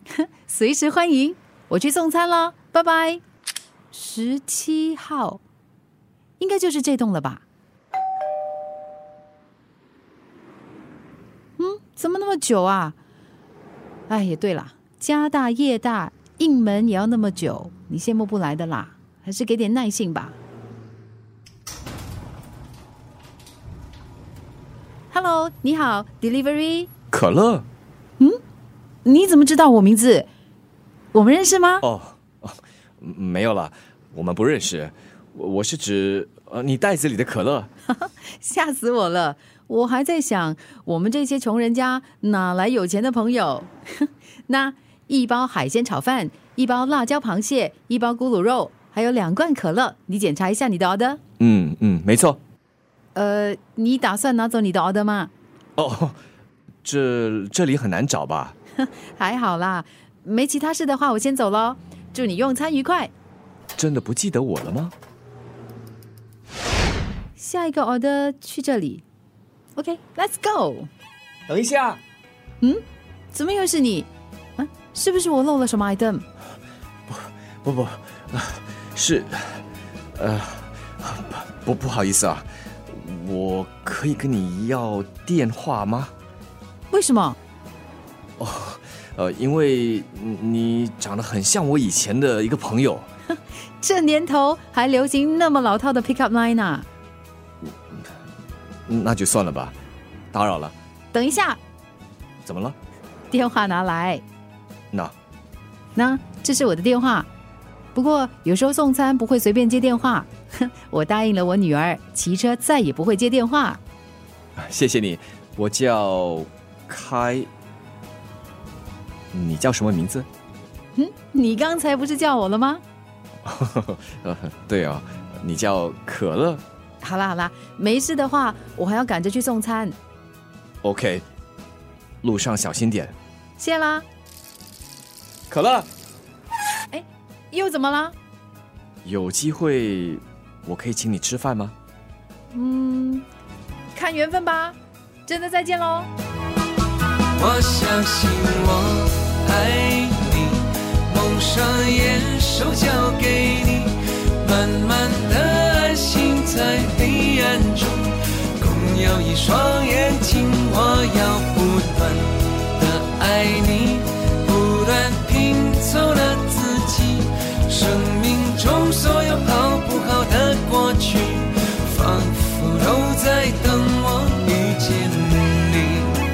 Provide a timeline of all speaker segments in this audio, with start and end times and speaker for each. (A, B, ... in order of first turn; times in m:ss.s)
0:00.2-0:03.2 A
0:03.9-0:05.4 A
0:06.4-0:07.4 A
0:11.6-0:13.0 A
0:14.1-0:20.4 A
0:25.1-0:26.9 A
0:27.1-0:27.6 B
0:29.0-0:30.3 A
0:31.1-0:31.8 A
0:31.8-0:37.7 B
0:37.9-0:51.2 A
0:51.4-0:52.4 B
0:53.1-0:55.3 A
0:55.8-0:56.2 B
0:56.8-0:58.5 B
0:58.8-1:03.1 A
1:03.8-1:04.9 B
1:07.4-1:09.0 A
1:09.8-1:10.9 A
1:11.5-1:12.0 B
1:12.6-1:16.2 A
1:17.1-1:19.6 B
1:20.2-1:26.1 B
1:26.9-1:27.4 A
1:28.4-1:33.1 B
1:33.8-1:36.8 A
1:38.9-1:39.7 B
1:40.3-1:40.7 B
1:41.1-1:41.6 A
1:42.4-1:42.8 B
1:43.3-1:44.2 A
1:46.0-1:47.3 A
1:47.9-1:53.8 A
1:54.6-1:57.5 B
1:59.3-2:00.3 B
2:01.0-2:02.8 A
2:03.4-2:06.6 B
2:07.0-2:10.0 A
2:10.8-2:11.2 B
2:12.2-2:13.1 B
2:13.6-2:14.0 A
2:15.5-2:15.9 B
2:16.9-2:18.1 A
2:19.0-2:21.7 B
2:22.5-2:23.2 A
2:23.9-2:26.1 A
2:27.4-2:56.2 C